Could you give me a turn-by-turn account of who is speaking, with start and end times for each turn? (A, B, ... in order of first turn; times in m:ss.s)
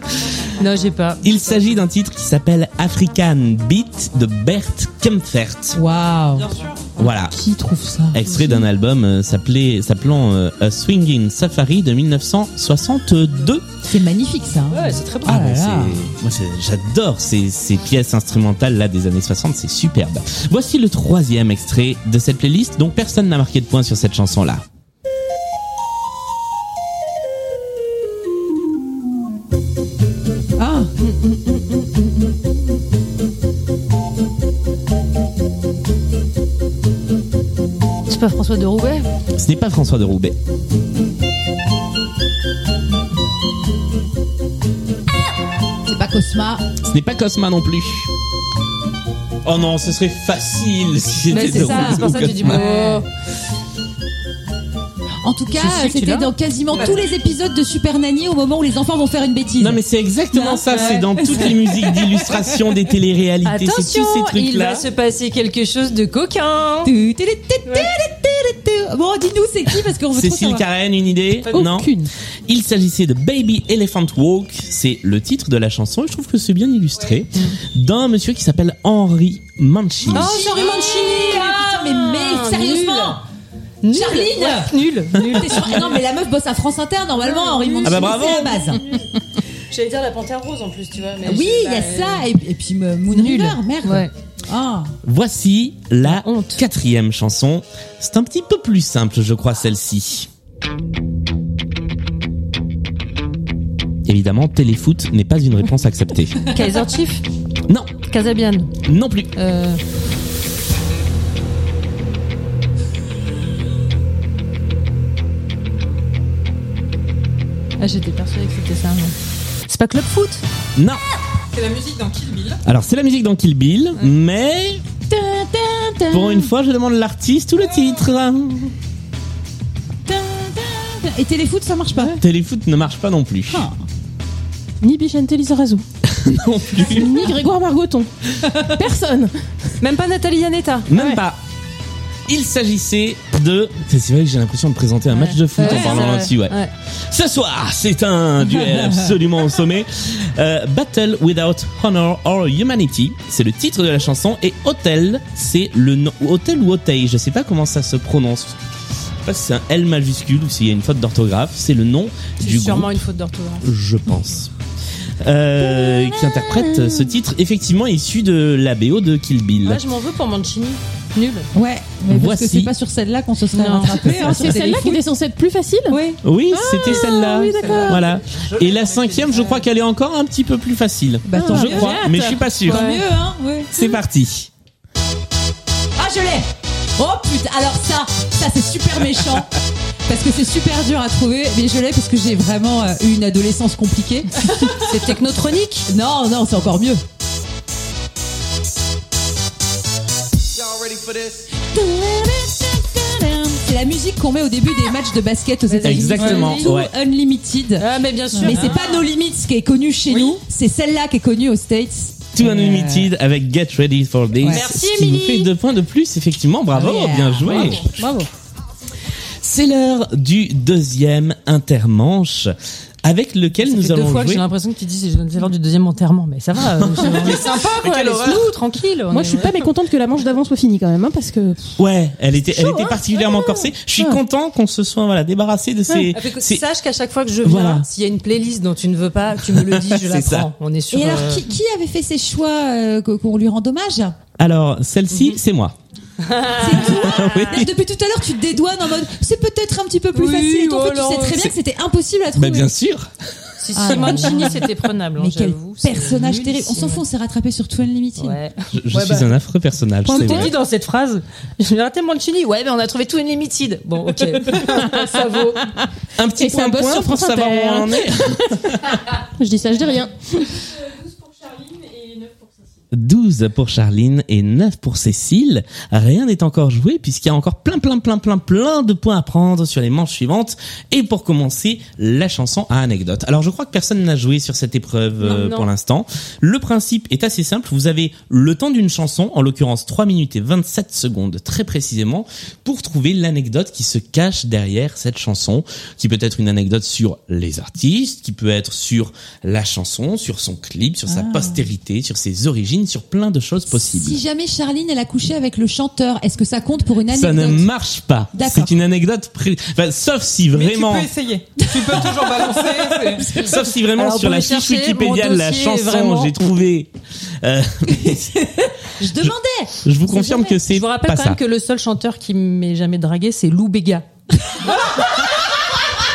0:00.5-0:01.6 A
0:01.2-0:05.8 B
0:05.7-0:06.5 C
0:06.4-0:06.9 D
0:07.0-0:07.4 B
0:07.4-0:08.2 C
0:07.4-0:08.1 E
0:08.1-0:13.6 B
0:08.2-0:08.6 A
0:13.8-0:16.0 C
0:14.7-0:15.3 A
0:15.2-0:24.6 B
0:30.6-0:30.9 C
0:31.0-0:31.9 A
0:38.1-0:39.1 A
0:39.4-0:40.4 B
0:45.8-0:46.6 C
0:46.8-0:48.1 B
0:49.4-0:52.6 B
0:51.3-0:53.1 A
0:51.3-0:53.0 C
0:55.2-0:59.8 C
0:55.6-0:57.0 A
0:56.7-0:57.2 D
0:59.6-1:04.9 B
1:00.4-1:01.5 A
1:01.2-1:02.5 C
1:03.4-1:06.9 A
1:06.8-1:10.6 C
1:10.1-1:11.9 B
1:11.6-1:12.0 E
1:11.6-1:12.0 C
1:12.5-1:20.4 B
1:20.1-1:23.2 C
1:20.1-1:23.2 A
1:23.8-1:26.0 A
1:23.9-1:28.8 C
1:27.2-1:29.0 A
1:27.8-1:28.8 B
1:29.7-1:32.3 A
1:31.2-1:34.9 C
1:33.1-1:34.1 A
1:35.0-1:40.3 B
1:36.0-1:36.6 A
1:44.1-1:46.5 B
1:46.4-1:47.2 A
1:47.7-1:48.0 B
1:48.1-1:48.7 A
1:48.8-1:49.3 B
1:49.4-1:49.8 A
1:57.8-1:59.1 A
1:59.7-2:00.4 A
2:00.8-2:01.0 B
2:01.5-2:02.6 D
2:02.6-2:04.8 B
2:05.1-2:06.5 C
2:06.1-2:08.7 B
2:10.0-2:12.2 C
2:12.2-2:13.7 B
2:13.5-2:13.8 C
2:14.8-2:15.8 E
2:16.1-2:17.3 B
2:16.8-2:18.1 E
2:18.6-2:19.3 E
2:19.8-2:20.9 A
2:20.9-2:21.4 B
2:20.9-2:21.2 E
2:22.3-2:38.6 B
2:25.1-2:26.7 A
2:25.6-2:26.0 C
2:28.6-2:29.0 C
2:39.2-2:43.0 B
2:42.4-2:43.7 A
2:43.6-2:44.5 B
2:45.2-2:49.8 B
2:45.6-2:47.1 C
2:49.6-2:51.5 A
2:51.5-2:55.0 C
2:52.1-2:52.7 B
2:53.5-2:54.2 A
2:54.1-2:56.0 E
2:55.9-2:56.2 C
2:56.2-3:02.8 B
2:56.5-2:58.0 E
2:57.5-2:59.7 D
3:01.3-3:04.0 C
3:01.3-3:02.4 E
3:02.7-3:03.0 A
3:03.7-3:04.5 B
3:06.0-3:09.5 C
3:10.1-3:14.9 C
3:14.7-3:15.9 A
3:15.9-3:17.0 C
3:21.7-3:33.1 C
3:25.7-3:26.7 A
3:25.8-3:26.9 B
3:27.8-3:29.0 A
3:28.5-3:29.0 D
3:30.1-3:30.4 D
3:32.3-3:37.9 B
3:34.5-3:35.5 A
3:36.7-3:37.8 C
3:37.9-3:38.3 E
3:39.4-3:44.4 B
3:43.6-3:49.6 A
3:46.8-3:48.3 B
3:47.3-3:48.4 D
3:49.1-3:51.8 E
3:51.8-3:56.6 B
3:55.9-4:01.5 A
3:57.4-3:57.9 B
3:59.4-4:00.5 B
4:00.9-4:04.2 C
4:04.4-4:05.8 B
4:06.2-4:07.2 A
4:06.5-4:12.7 C
4:06.7-4:07.7 B
4:10.1-4:11.5 A
4:12.4-4:13.1 B
4:13.6-4:17.0 A
4:13.8-4:18.4 C
4:18.2-4:19.4 A
4:18.7-4:20.6 B
4:20.1-4:25.7 A
4:26.2-4:29.0 B
4:26.4-4:28.1 E
4:29.1-4:30.6 E
4:32.9-5:04.2 B
4:45.2-4:45.7 A
5:01.1-5:01.6 C
5:03.7-5:07.7 C
5:07.1-5:11.1 B
5:08.3-5:08.8 C
5:10.5-5:13.4 D
5:13.2-5:18.4 B
5:13.8-5:16.3 A
5:18.1-5:19.8 C
5:19.2-5:21.4 B
5:20.1-5:24.1 A